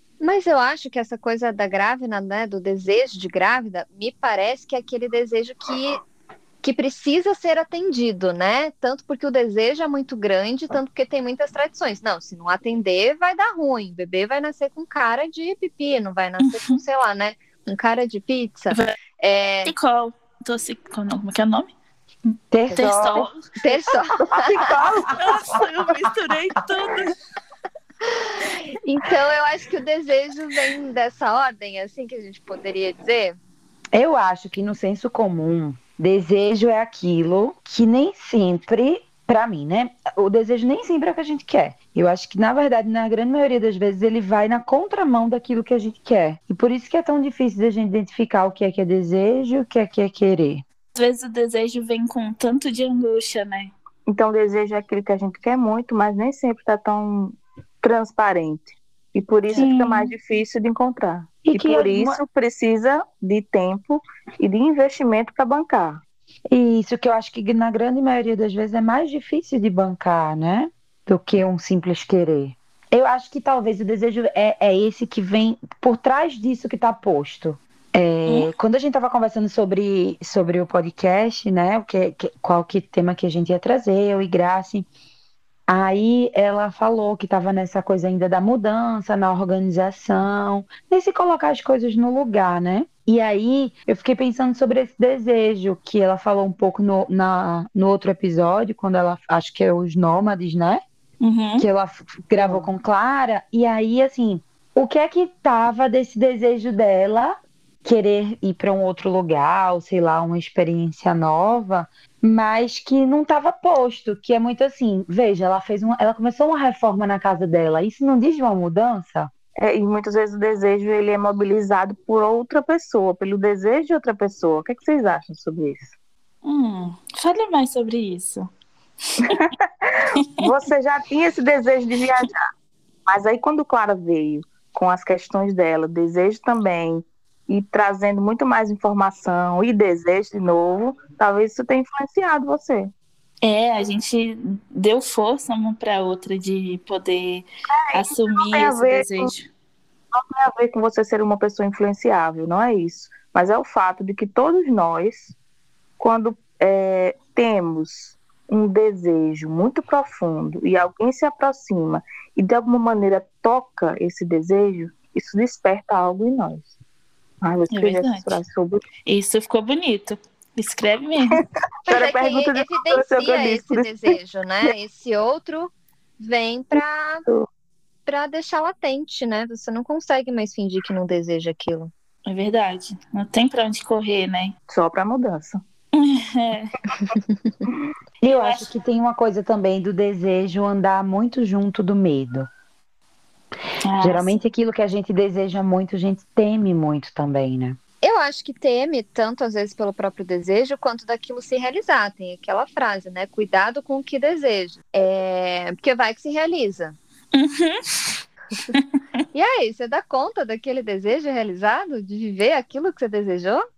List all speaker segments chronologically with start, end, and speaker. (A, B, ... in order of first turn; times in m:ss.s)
0:00.2-0:06.0 A
0:06.6-0:19.7 A
0:16.5-0:16.8 B
0:19.6-0:21.7 B
0:22.5-0:23.3 C
0:22.7-0:23.5 B
0:23.6-0:24.5 A
0:24.2-0:25.5 D
0:24.6-0:25.5 C
0:25.1-0:27.1 B
0:28.1-0:33.4 A
0:33.9-0:50.6 C
0:51.0-0:53.7 B
0:54.1-1:06.0 D
0:59.6-1:00.1 C
1:01.4-1:02.2 C
1:06.5-1:24.9 C
1:25.7-1:40.8 C
1:41.2-1:41.7 B
1:41.6-1:59.3 C
1:42.4-1:42.7 D
1:59.6-2:05.9 D
2:06.4-2:08.5 B
2:09.2-2:09.5 B
2:09.3-2:12.5 D
2:13.1-2:22.9 D
2:23.4-2:29.5 B
2:27.9-2:29.3 D
2:30.1-2:35.4 D
2:36.0-2:46.8 D
2:47.4-2:48.8 D
2:47.7-2:48.4 B
2:49.1-2:51.4 B
2:51.3-2:54.2 D
2:51.9-2:57.2 A
2:58.1-3:01.9 A
3:02.2-3:04.6 B
3:04.7-3:05.6 D
3:05.9-3:06.8 B
3:08.2-3:12.5 C
3:08.2-3:08.7 B
3:13.8-3:14.4 B
3:14.0-3:17.8 C
3:18.0-3:27.0 A
3:27.3-3:28.2 B
3:29.3-3:33.6 A